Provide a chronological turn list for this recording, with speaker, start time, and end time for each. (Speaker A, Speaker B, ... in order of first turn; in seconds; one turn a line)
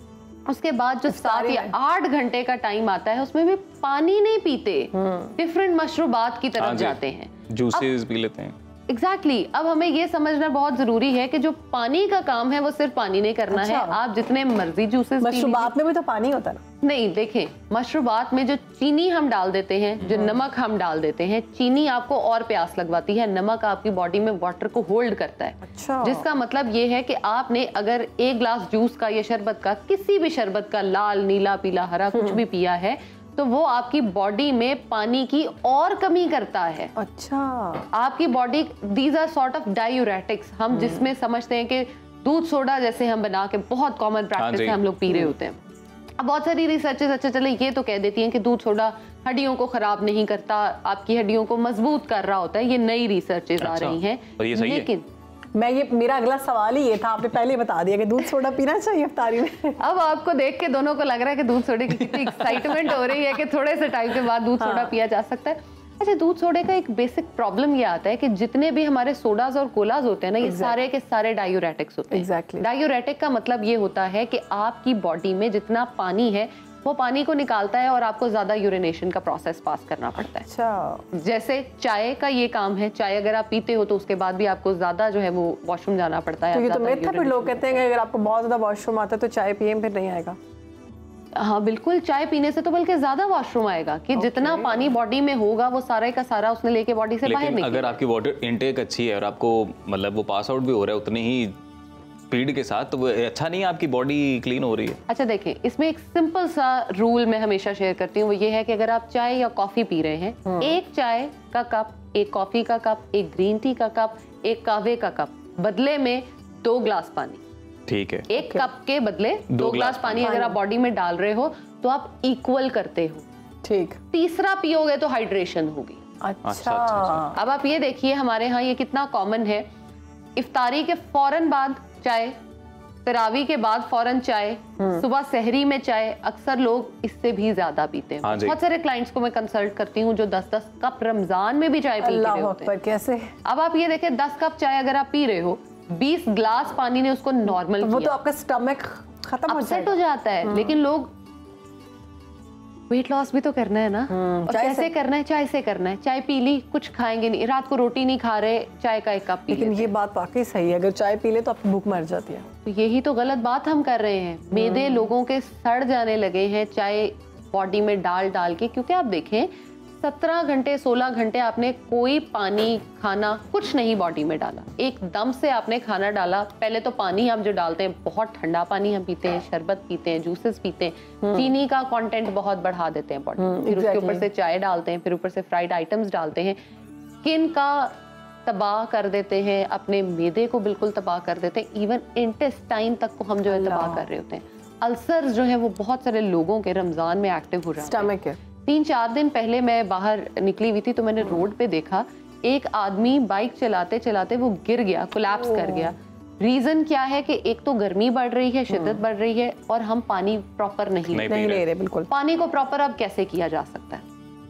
Speaker A: 0.5-7.9
Speaker B: 1.1-1.8
Speaker B: 4.9-5.4
Speaker C: 6.6-7.0
Speaker C: 7.5-8.6
Speaker A: 8.9-15.7
Speaker B: 13.5-14.0
Speaker B: 15.2-16.6
Speaker A: 16.8-36.9
Speaker B: 20.1-20.4
Speaker B: 25.6-26.3
Speaker B: 32.1-32.4
Speaker B: 37.0-37.9
Speaker A: 37.9-45.6
Speaker B: 40.7-41.1
Speaker C: 44.4-44.8
Speaker A: 46.2-55.1
Speaker C: 53.6-54.9
Speaker B: 55.5-59.8
Speaker A: 59.8-80.5
Speaker B: 64.6-64.9
Speaker B: 70.4-70.8
Speaker B: 72.1-72.7
Speaker B: 80.4-81.0
Speaker A: 81.1-87.8
Speaker B: 86.5-90.4
Speaker A: 91.4-98.0
Speaker B: 94.1-94.9
Speaker C: 97.2-101.6
Speaker C: 102.3-105.0
Speaker A: 105.1-117.4
Speaker B: 110.5-110.8
Speaker C: 117.9-118.3
Speaker A: 118.3-123.2
Speaker B: 118.4-118.7
Speaker C: 119.5-120.4
Speaker B: 120.2-120.6
Speaker B: 123.6-124.0
Speaker A: 124.1-126.0
Speaker B: 126.2-127.4
Speaker C: 126.4-127.3
Speaker A: 127.3-129.7
Speaker A: 130.4-132.3
Speaker A: 133.1-142.7
Speaker B: 134.8-135.1
Speaker C: 138.2-138.6
Speaker B: 142.0-143.3
Speaker A: 143.4-148.2
Speaker B: 147.5-150.8
Speaker A: 149.5-151.1
Speaker A: 152.9-159.9
Speaker B: 154.1-154.9
Speaker B: 159.5-162.5
Speaker A: 162.7-169.5
Speaker B: 164.5-165.1
Speaker A: 170.0-186.6
Speaker B: 181.2-181.5
Speaker B: 183.4-184.3
Speaker A: 187.2-187.9
Speaker A: 188.5-198.2
Speaker B: 193.5-194.1
Speaker B: 197.8-198.4
Speaker A: 198.7-211.4
Speaker B: 205.3-205.9
Speaker B: 208.7-209.0
Speaker C: 211.1-211.6
Speaker B: 211.3-212.1
Speaker A: 212.1-214.0